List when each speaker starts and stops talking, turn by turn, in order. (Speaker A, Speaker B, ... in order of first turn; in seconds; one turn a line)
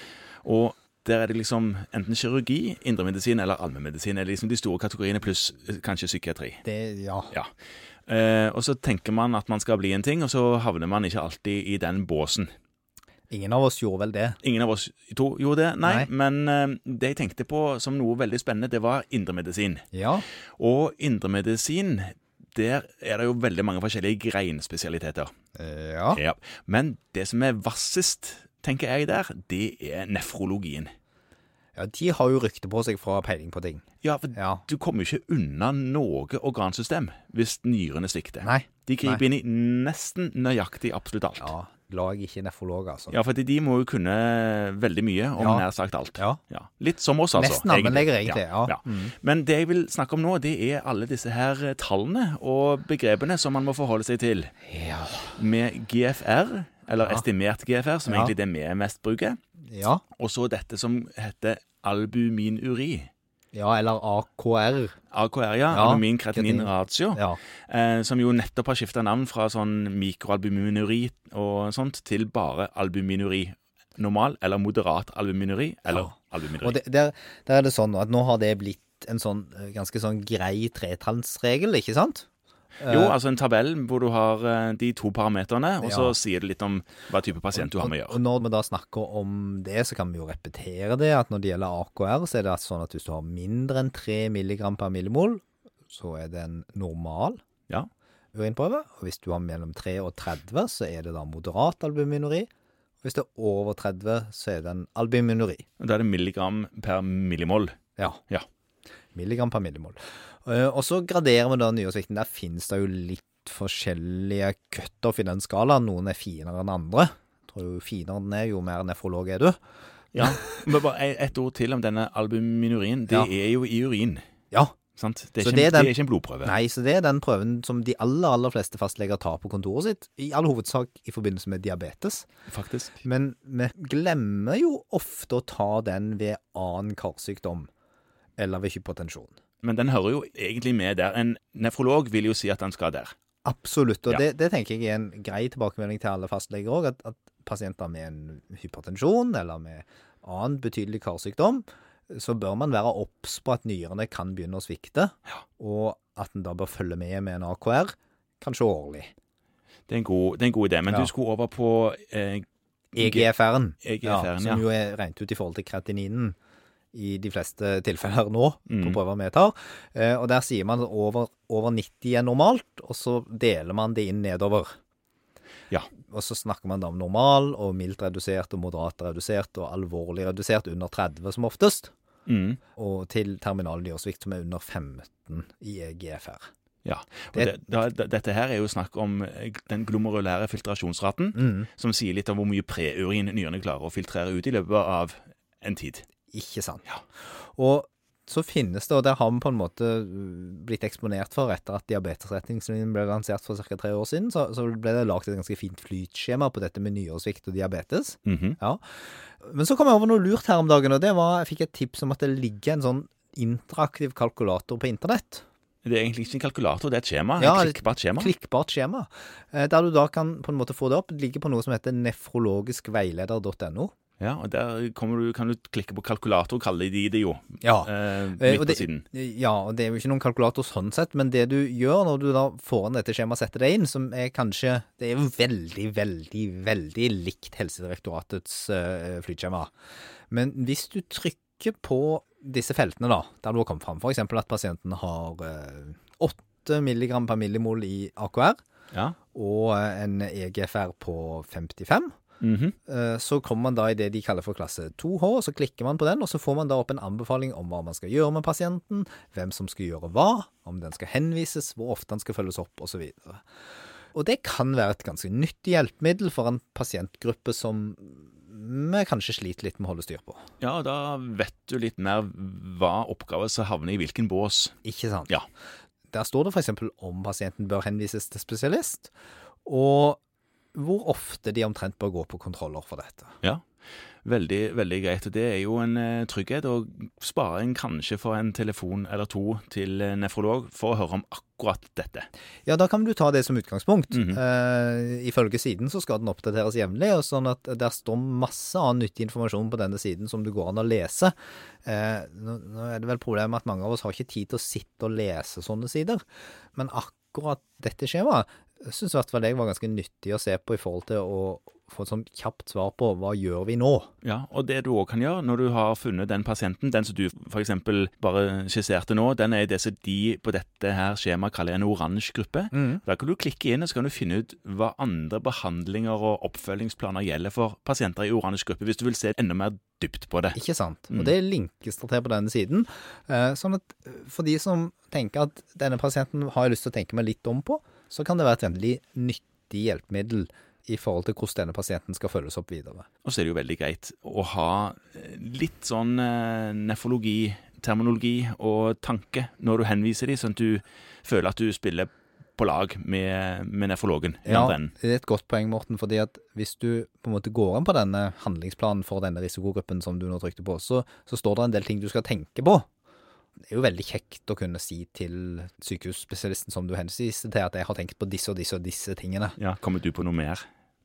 Speaker A: 0.4-6.6
Speaker B: 6.6-7.3
Speaker A: 8.1-12.5
Speaker B: 13.3-14.4
Speaker A: 14.4-19.9
Speaker B: 15.8-16.1
Speaker B: 19.9-20.2
Speaker A: 20.6-25.3
Speaker B: 25.5-26.2
Speaker A: 26.1-30.9
Speaker B: 31.8-34.6
Speaker A: 34.0-41.5
Speaker B: 38.4-39.2
Speaker B: 41.4-43.2
Speaker A: 43.1-54.5
Speaker B: 45.4-45.6
Speaker B: 47.3-49.1
Speaker B: 54.7-55.3
Speaker A: 55.4-59.4
Speaker B: 58.0-58.3
Speaker B: 59.6-60.0
Speaker A: 60.1-63.1
Speaker B: 63.5-65.0
Speaker A: 65.1-76.8
Speaker B: 65.7-67.4
Speaker B: 75.9-82.2
Speaker B: 82.8-83.1
Speaker A: 82.9-88.2
Speaker B: 85.8-86.1
Speaker B: 87.5-97.4
Speaker B: 98.3-102.5
Speaker B: 103.0-105.6
Speaker A: 105.8-107.7
Speaker B: 109.1-119.6
Speaker A: 120.1-124.2
Speaker B: 120.2-120.6
Speaker A: 125.0-126.5
Speaker B: 125.4-125.9
Speaker B: 126.4-132.3
Speaker A: 132.5-133.0
Speaker B: 133.0-137.7
Speaker B: 138.4-139.4
Speaker A: 139.6-143.1
Speaker B: 143.4-159.1
Speaker A: 159.9-163.3
Speaker B: 162.9-166.3
Speaker A: 163.8-164.6
Speaker B: 166.9-174.7
Speaker A: 168.7-169.0
Speaker B: 176.1-181.9
Speaker A: 182.3-182.6
Speaker B: 182.8-186.5
Speaker A: 186.8-196.1
Speaker B: 187.3-187.6
Speaker B: 191.3-191.7
Speaker B: 196.3-208.8
Speaker A: 208.2-208.6
Speaker B: 209.4-215.4
Speaker A: 215.8-218.3
Speaker B: 217.4-223.9
Speaker A: 224.2-229.0
Speaker B: 227.6-239.7
Speaker B: 240.3-248.6
Speaker A: 248.9-249.2
Speaker B: 249.3-252.1
Speaker A: 252.4-252.8
Speaker B: 252.9-263.4
Speaker B: 264.1-270.4
Speaker A: 270.6-274.7
Speaker B: 274.8-275.3
Speaker B: 276.1-279.1
Speaker B: 279.6-280.2
Speaker B: 280.7-283.3
Speaker A: 284.2-292.3
Speaker B: 292.6-306.2
Speaker A: 294.1-294.4
Speaker B: 306.7-314.1
Speaker A: 314.2-330.6
Speaker B: 322.7-323.0
Speaker B: 330.5-343.1
Speaker A: 343.2-354.9
Speaker B: 354.4-362.9
Speaker B: 363.7-369.6
Speaker A: 369.6-370.6